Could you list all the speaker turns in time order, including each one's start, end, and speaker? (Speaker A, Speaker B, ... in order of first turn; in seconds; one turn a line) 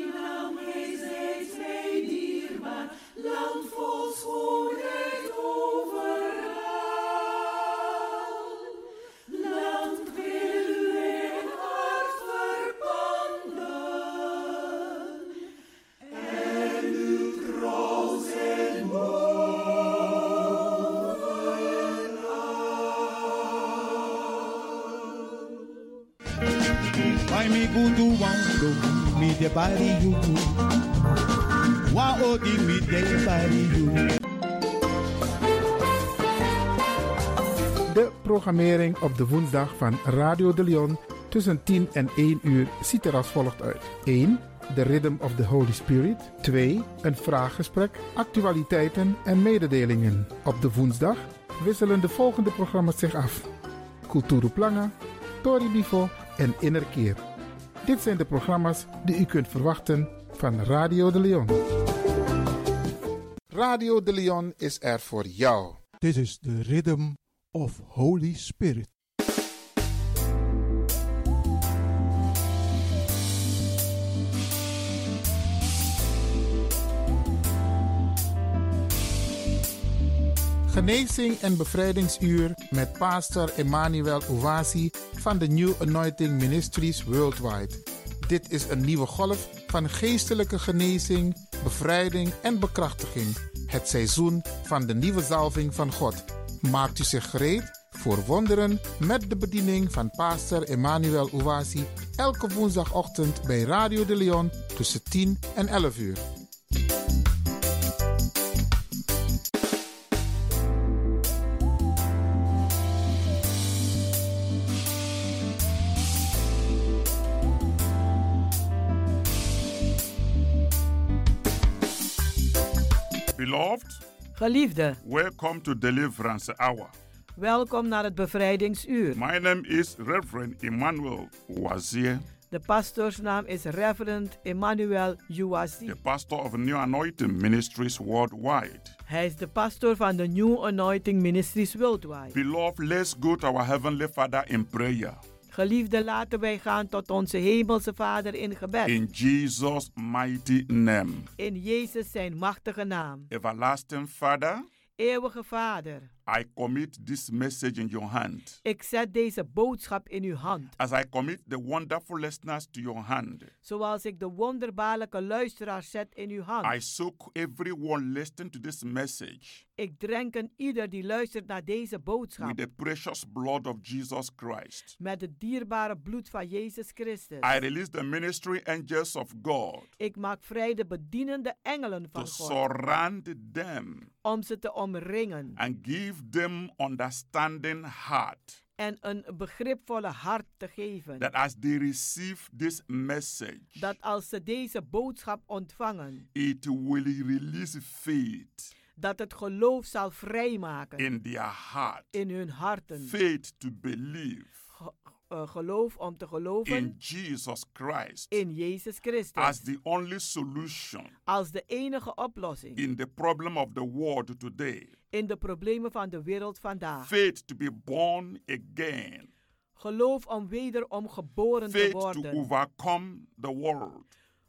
Speaker A: 27.3-30.6
Speaker A: 31.9-34.1
Speaker B: 37.9-53.5
Speaker B: 54.0-57.2
Speaker B: 57.8-61.6
Speaker B: 63.5-65.8
Speaker C: 66.0-68.9
Speaker B: 80.7-106.2
Speaker D: 123.3-124.0
Speaker E: 124.3-125.0
Speaker D: 125.0-126.9
Speaker E: 127.4-129.2
Speaker D: 129.1-132.2
Speaker E: 132.5-135.9
Speaker D: 135.8-138.9
Speaker E: 139.1-142.3
Speaker D: 142.3-145.2
Speaker E: 145.5-148.9
Speaker D: 148.8-151.3
Speaker E: 151.4-153.3
Speaker D: 153.3-154.7
Speaker E: 155.0-156.1
Speaker D: 156.3-158.6
Speaker E: 158.6-160.7
Speaker D: 160.8-163.5
Speaker E: 163.6-166.7
Speaker D: 166.6-169.6
Speaker E: 169.8-172.6
Speaker D: 172.4-174.9
Speaker E: 175.0-177.5
Speaker D: 177.4-179.9
Speaker E: 180.0-182.6
Speaker D: 182.2-184.1
Speaker E: 184.2-185.6
Speaker D: 185.6-188.6
Speaker E: 188.8-191.2
Speaker D: 191.2-193.8
Speaker E: 193.8-196.2
Speaker D: 196.3-198.7
Speaker E: 199.0-201.0
Speaker D: 201.0-202.1
Speaker E: 202.1-203.1
Speaker D: 203.0-204.5
Speaker E: 204.8-206.9
Speaker D: 206.7-208.3
Speaker E: 208.3-209.6
Speaker D: 209.4-211.1
Speaker E: 211.3-212.8
Speaker D: 212.8-214.9
Speaker E: 215.1-217.1
Speaker D: 217.0-219.3
Speaker E: 219.8-222.4
Speaker D: 221.7-224.1